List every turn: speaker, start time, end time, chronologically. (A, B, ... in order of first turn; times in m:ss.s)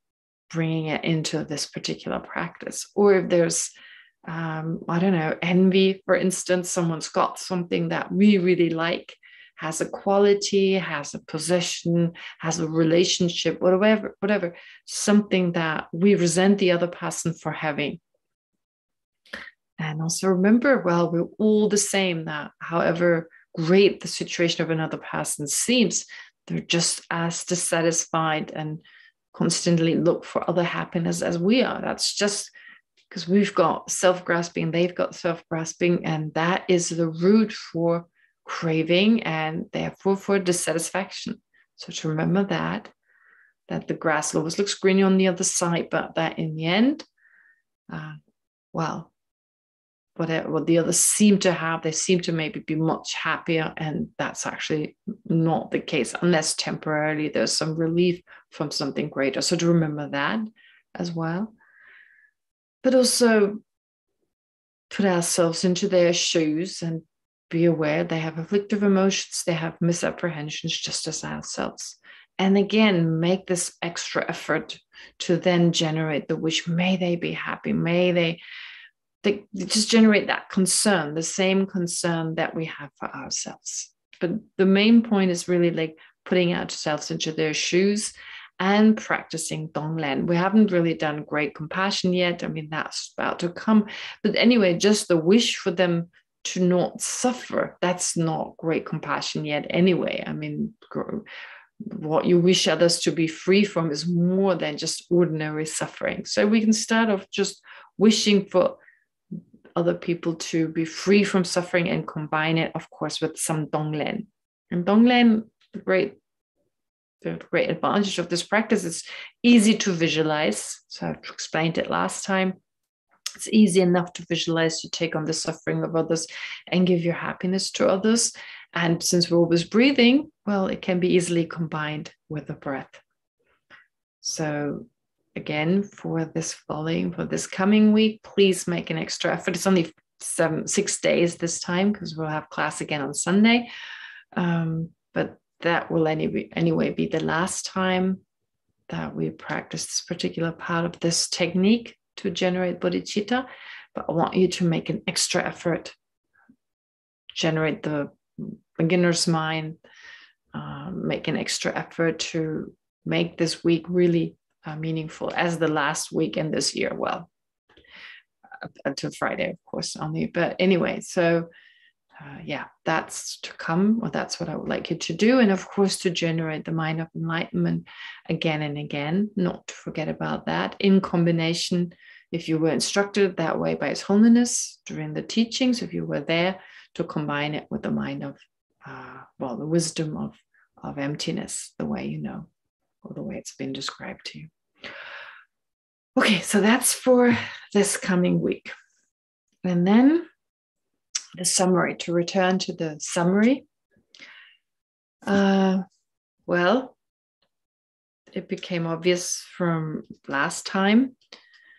0:00.5-0:03.7 A
0:04.2-0:18.0 A
0:19.8-0:28.8 A
0:29.3-0:32.5 A
0:33.1-0:42.9 A
0:43.7-0:47.0 A
0:47.9-0:48.2 A
0:48.7-0:49.1 A
0:50.2-1:01.5 A
1:02.8-1:03.6 A
1:04.9-1:18.4 A
1:19.2-1:41.2 A
1:41.8-1:48.8 A
1:49.8-1:56.2 A
1:57.2-2:02.6 A
2:03.4-2:13.0 A
2:14.2-2:23.7 A
2:24.3-2:28.2 A
2:28.9-2:35.9 A
2:37.4-2:39.8 A
2:40.5-2:47.3 A
2:48.8-2:51.5 A
2:52.2-3:12.5 A
3:13.0-3:14.5 A
3:16.2-3:18.7 A
3:19.6-3:20.2 A
3:21.4-3:23.6 A
3:25.2-3:25.8 A
3:26.5-3:26.9 A
3:28.3-3:31.1 A